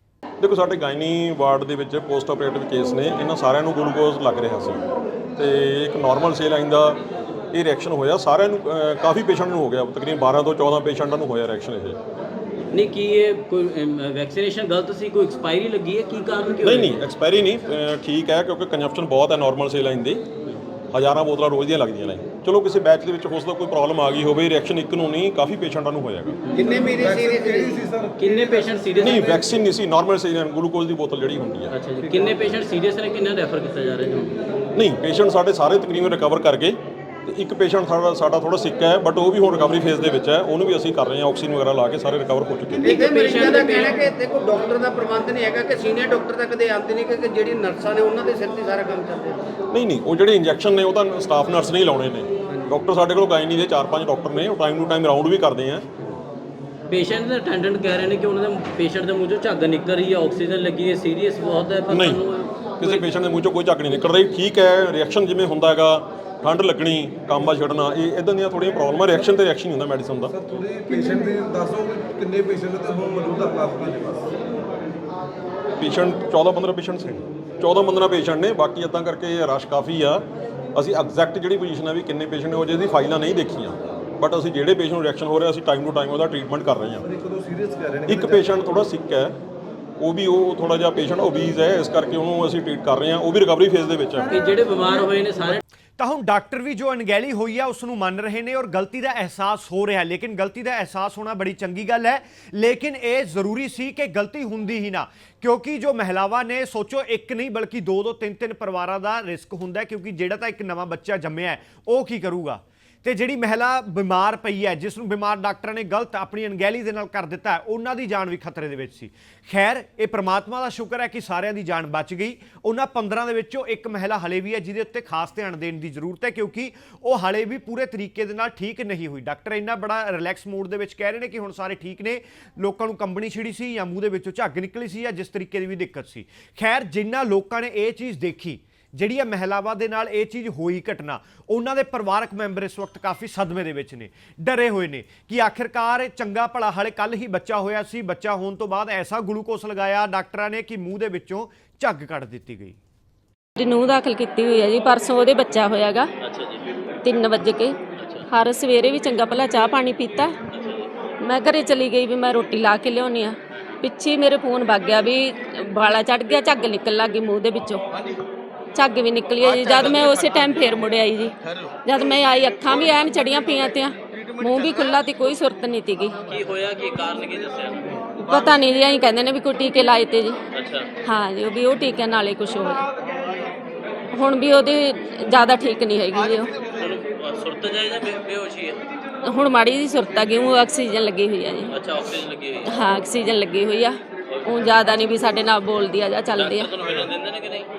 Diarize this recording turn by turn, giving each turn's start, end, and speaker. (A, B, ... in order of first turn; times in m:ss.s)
0:00.4-0:04.8 A
0:05.4-0:07.0 A
0:07.5-0:12.0 A
0:12.7-0:16.9 B
0:16.6-0:20.2 A
0:20.9-0:26.4 A
0:26.6-0:29.5 C
0:26.6-0:27.8 D
0:28.2-0:29.2 B
0:29.0-0:31.8 A
0:31.7-0:34.4 B
0:34.7-0:42.8 A
0:42.8-0:49.4 D
0:42.8-0:44.0 B
0:49.7-0:55.8 A
0:56.9-1:03.0 B
1:01.9-1:02.2 A
1:02.8-1:10.3 A
1:10.3-1:14.4 C
1:15.8-1:20.2 A
1:20.7-1:27.0 A
1:27.0-1:28.5 C
1:28.1-1:29.4 A
1:30.0-1:34.4 A
1:34.3-1:35.6 B
1:36.0-2:32.8 E
2:33.6-2:36.1 F
2:36.2-2:36.6 B
2:37.0-2:37.8 F
2:38.0-2:38.2 B
2:38.3-2:40.3 F
2:40.5-2:40.9 B
2:41.2-2:47.8 F
2:48.7-2:51.3 F
2:51.8-2:56.1 F
2:56.3-2:57.9 B
2:58.2-3:00.4 F
3:00.5-3:00.9 B
3:01.0-3:02.8 F
3:04.1-3:06.5 F
3:06.7-3:08.8 B
3:09.2-3:11.7 F
3:11.7-3:12.7 B
3:12.6-3:16.7 F
3:14.3-3:14.9 B
3:16.3-3:17.7 B